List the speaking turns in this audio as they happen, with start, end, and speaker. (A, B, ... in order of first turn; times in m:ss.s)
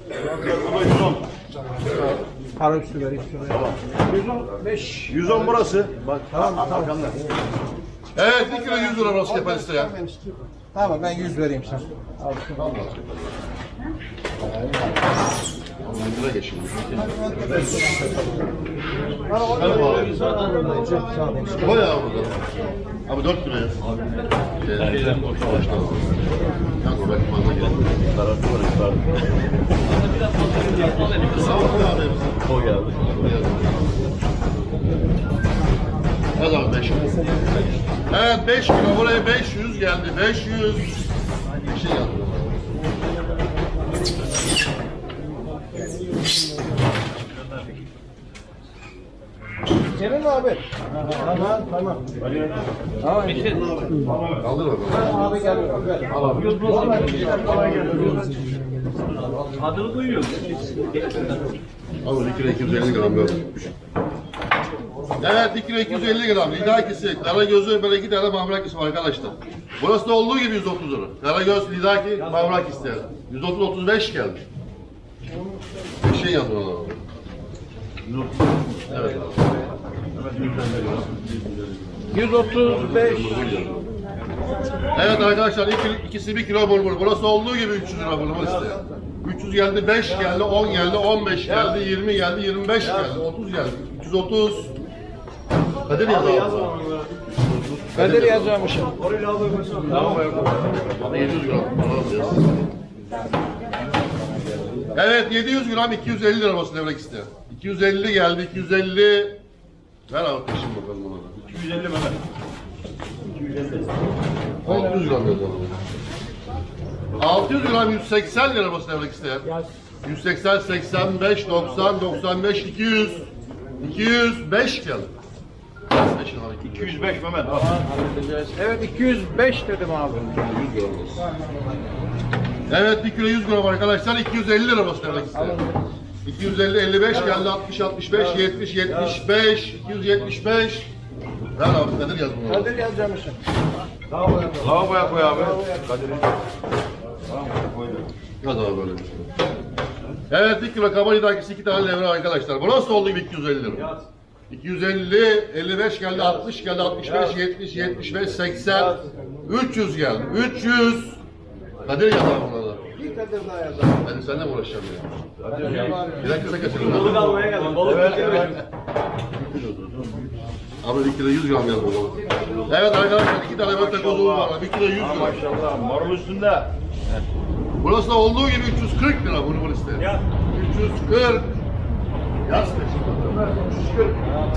0:00.2-0:01.2 A
0:02.6-0:03.7 B
0:03.5-0:04.5 A
0:04.6-0:05.5 B
0:05.1-0:07.2 A
0:06.3-0:07.0 B
0:08.2-0:09.9 C
0:08.2-0:12.4 B
0:12.5-0:13.3 C
0:15.8-0:16.8 C
0:17.2-0:17.6 B
0:19.3-0:21.9 B
0:19.5-0:20.1 C
0:19.8-0:20.9 D
0:21.5-0:22.4 C
0:23.1-0:23.8 C
0:24.6-0:26.1 C
0:24.8-0:25.9 E
0:26.8-0:27.8 C
0:28.1-0:29.2 E
0:29.9-0:31.6 D
0:31.3-0:32.4 C
0:32.4-0:33.1 E
0:33.1-0:33.8 C
0:36.4-0:37.1 C
0:38.1-0:40.9 C
0:41.7-0:42.6 C
0:49.9-0:50.6 B
0:51.2-0:52.0 B
0:53.0-0:53.8 B
0:53.2-0:53.9 D
0:54.1-0:54.4 A
0:54.4-0:55.4 C
0:54.9-0:56.1 B
0:56.1-0:56.9 A
0:56.2-0:56.4 C
0:56.4-0:58.1 D
0:56.7-0:58.5 B
0:59.4-1:01.4 D
1:02.0-1:03.5 C
1:05.2-1:14.4 C
1:16.0-1:17.0 C
1:18.1-1:18.5 A
1:18.9-1:19.4 C
1:20.2-1:20.8 A
1:20.6-1:20.9 C
1:22.1-1:23.4 B
1:22.6-1:23.8 C
1:24.9-1:34.7 C
1:31.4-1:31.8 A
1:32.8-1:33.2 A
1:35.9-1:36.8 C
1:36.1-1:36.4 A
1:37.7-1:38.7 C
1:38.0-1:38.9 B
1:39.0-1:41.2 A
1:41.0-1:42.4 C
1:44.9-1:49.4 C
1:50.1-1:51.4 C
1:51.4-1:52.2 A
1:53.3-1:53.9 A
1:54.6-1:55.8 C
1:57.2-1:59.4 C
2:00.0-2:03.3 C
2:03.8-2:05.1 C
2:05.9-2:07.2 C
2:06.6-2:07.9 A
2:08.5-2:10.6 B
2:10.4-2:11.2 C
2:11.2-2:11.6 B
2:12.7-2:15.6 C
2:15.3-2:15.9 B
2:16.2-2:20.9 C
2:21.6-2:22.8 C
2:22.5-2:23.4 B
2:24.1-2:25.9 B
2:24.5-2:26.3 A
2:27.3-2:28.1 A
2:28.4-2:29.1 C
2:30.3-2:33.8 C
2:34.5-2:41.2 C
2:37.0-2:37.3 A
2:38.7-2:39.0 A
2:41.8-2:42.8 C
2:43.0-2:44.0 B
2:44.0-2:45.1 C
2:45.4-2:45.9 A
2:45.5-2:46.8 B
2:45.9-2:47.4 C
2:46.8-2:48.6 D
2:47.1-2:48.6 A
2:49.4-2:50.2 A
2:50.8-2:55.4 C
2:53.6-2:56.7 A
2:57.8-3:01.6 C
3:02.5-3:03.4 C
3:03.3-3:04.2 A